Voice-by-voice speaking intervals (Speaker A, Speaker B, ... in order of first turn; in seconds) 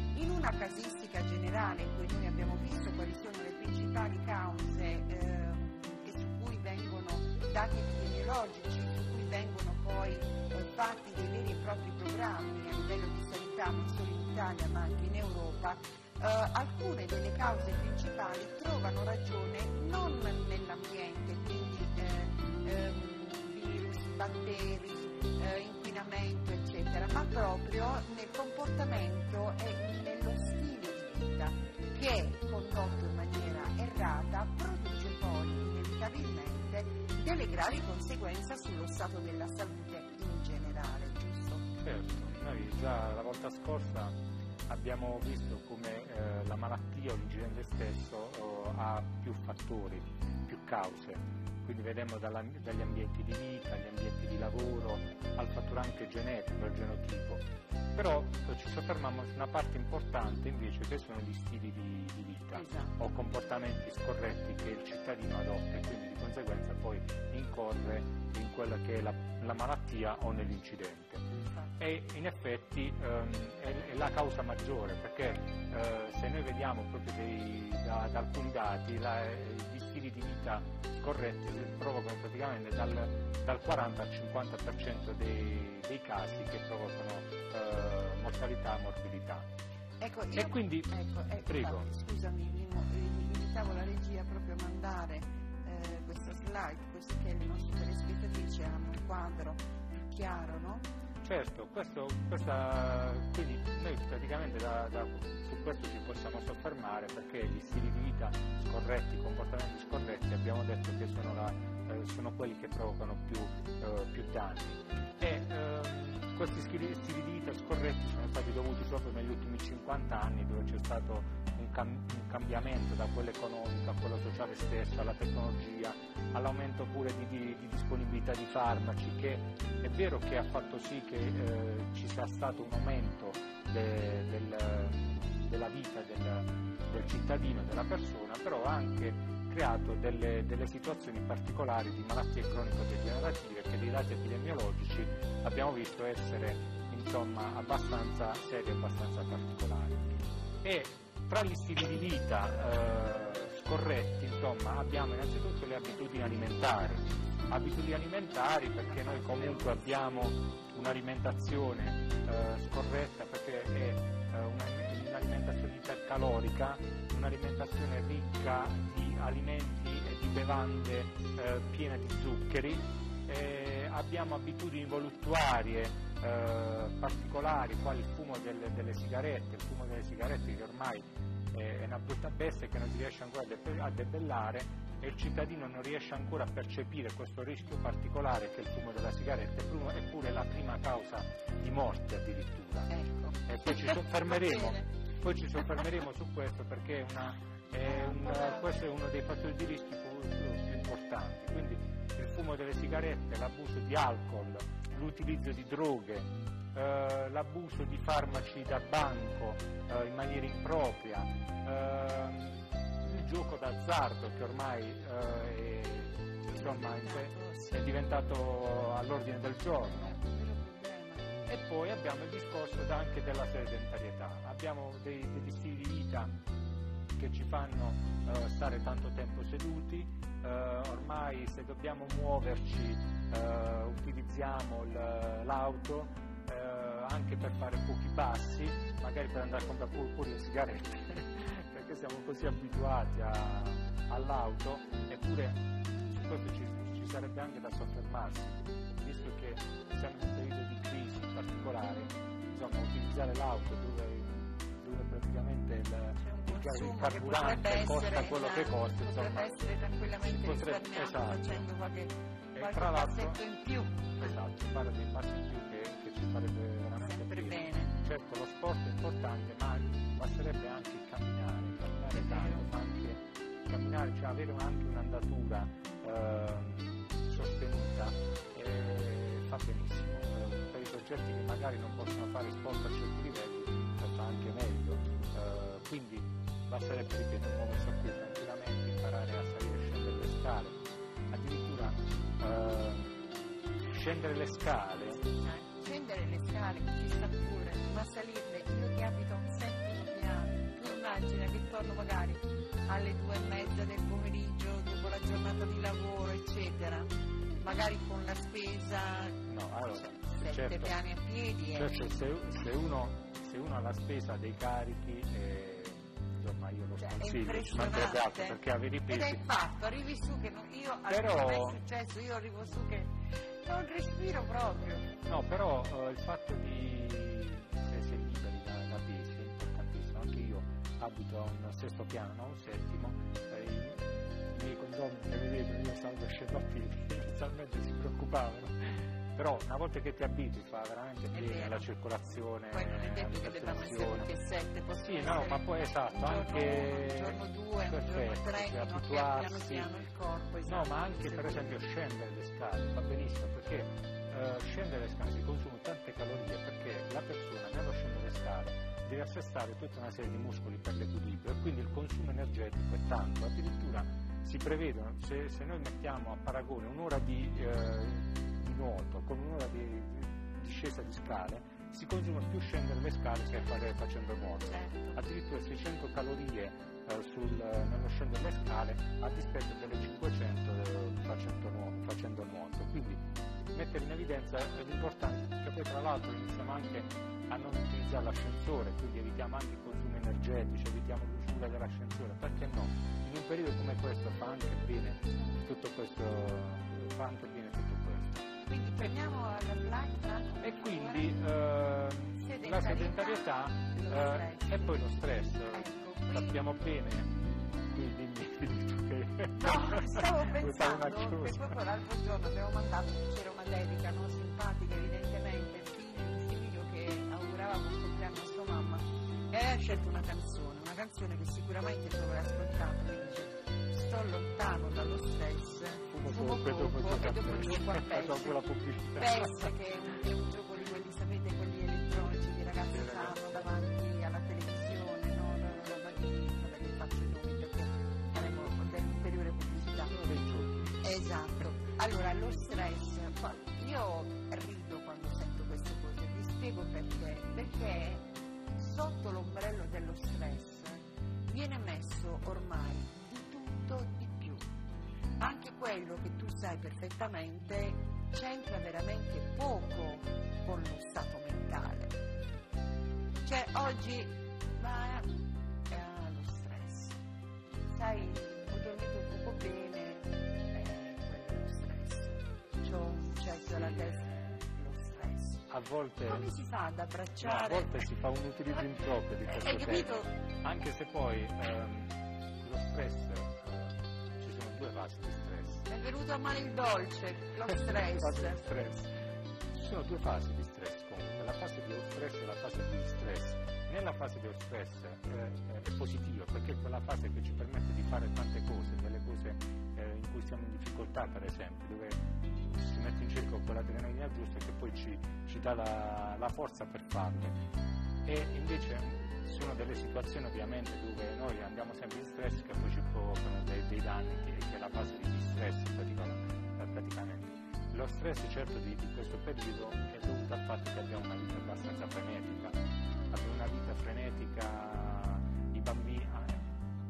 Speaker A: 0.1-41.7, 62.5-63.0, 71.4-71.7, 90.0-100.9, 156.4-156.7, 158.9-160.1, 192.9-194.9, 197.9-198.8, 216.5-217.9, 219.8-221.3, 256.2-264.3, 267.0-267.9, 272.1-272.7, 295.0-312.0, 317.0-325.1, 341.3-341.9, 342.7-351.8, 374.7-375.2, 398.6-401.4, 402.4-406.6, 409.5-428.6, 429.1-440.1, 441.0-454.7, 455.4-462.2, 463.4-467.2, 467.9-475.6, 476.3-478.0, 479.4-480.3, 485.9-488.6
Speaker B: 41.8-44.2, 44.7-71.2, 71.8-89.5, 90.3-90.9, 91.5-91.9, 101.2-150.0, 150.6-220.2, 221.5-226.3, 227.2-259.6, 260.2-261.6, 262.5-263.4, 264.1-290.8, 291.3-293.2, 293.9-295.2, 309.5-311.0, 311.8-319.4, 321.1-321.8, 325.3-344.3, 345.0-349.9, 350.7-398.4, 400.6-407.3, 407.9-411.8, 426.1-429.7, 432.9-433.6, 440.1-441.0, 473.7-474.1, 475.7-476.5, 477.4-485.9, 487.7-489.1, 489.7-507.6, 508.2-522.8, 523.3-526.7